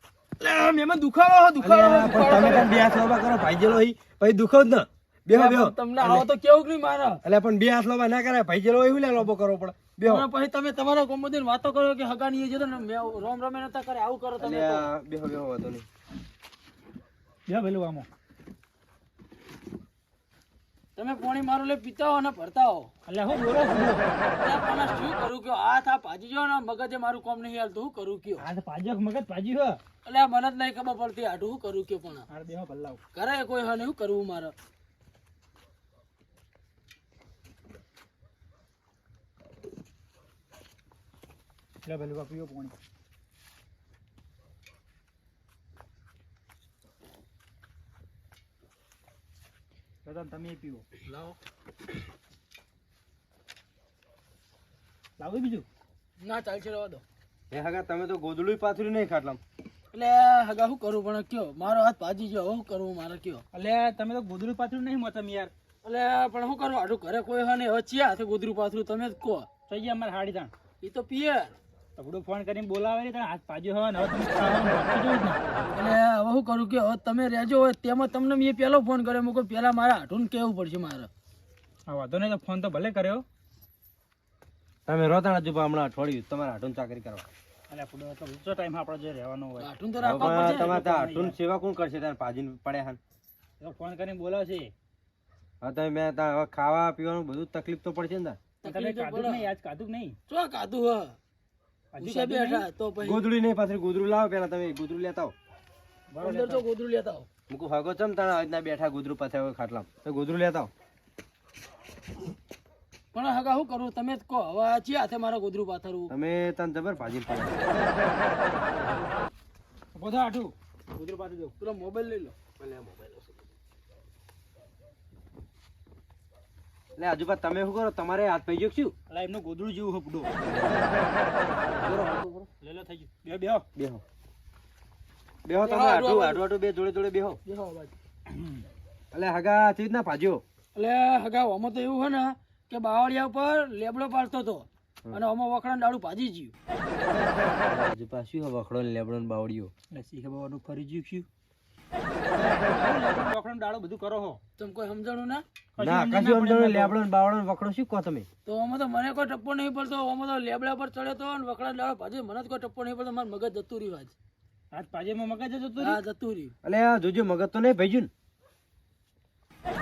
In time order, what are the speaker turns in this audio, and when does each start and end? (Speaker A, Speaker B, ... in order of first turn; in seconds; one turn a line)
Speaker A: 0.4-2.7
Speaker B: 1.6-6.3
Speaker A: 5.3-7.2
Speaker B: 7.2-10.3
Speaker A: 10.1-14.9
Speaker B: 14.4-15.9
Speaker C: 17.5-18.1
Speaker A: 21.0-22.9
Speaker C: 23.1-24.1
Speaker A: 24.4-28.4
Speaker C: 28.4-29.8
Speaker A: 30.1-32.3
Speaker C: 32.3-33.0
Speaker A: 33.1-34.5
Speaker C: 41.8-42.7
Speaker C: 50.0-50.9
Speaker A: 51.1-51.4
Speaker C: 55.2-55.7
Speaker A: 56.2-57.0
Speaker B: 57.5-59.4
Speaker A: 59.9-63.4
Speaker C: 63.5-65.5
Speaker A: 65.8-69.5
Speaker C: 69.7-70.5
Speaker A: 70.8-71.5
Speaker C: 72.0-75.4
Speaker A: 75.7-81.1
Speaker C: 81.9-83.2
Speaker B: 84.9-87.3
Speaker C: 87.7-91.3
Speaker A: 89.6-90.7
Speaker B: 90.0-93.0
Speaker C: 93.6-94.7
Speaker B: 95.6-98.4
Speaker A: 98.6-99.5
Speaker C: 98.7-100.2
Speaker A: 100.3-101.2
Speaker C: 101.9-102.7
Speaker A: 102.0-103.2
Speaker B: 103.0-105.3
Speaker C: 106.1-106.6
Speaker A: 106.2-107.3
Speaker B: 107.5-110.7
Speaker A: 113.1-116.1
Speaker B: 116.1-117.6
Speaker C: 120.0-121.5
Speaker A: 121.6-122.4
Speaker B: 127.0-128.9
Speaker C: 129.1-130.3
Speaker B: 130.4-131.1
Speaker B: 131.6-132.5
Speaker C: 132.6-133.7
Speaker B: 133.8-134.0
Speaker B: 135.4-137.4
Speaker A: 135.7-136.4
Speaker A: 137.5-137.9
Speaker B: 139.1-140.4
Speaker A: 140.8-146.5
Speaker B: 147.7-149.7
Speaker C: 149.9-151.3
Speaker C: 152.3-154.4
Speaker A: 154.6-155.4
Speaker C: 155.8-157.0
Speaker B: 155.8-158.3
Speaker A: 158.5-164.1
Speaker C: 164.7-166.0
Speaker A: 165.8-166.5
Speaker B: 166.6-168.1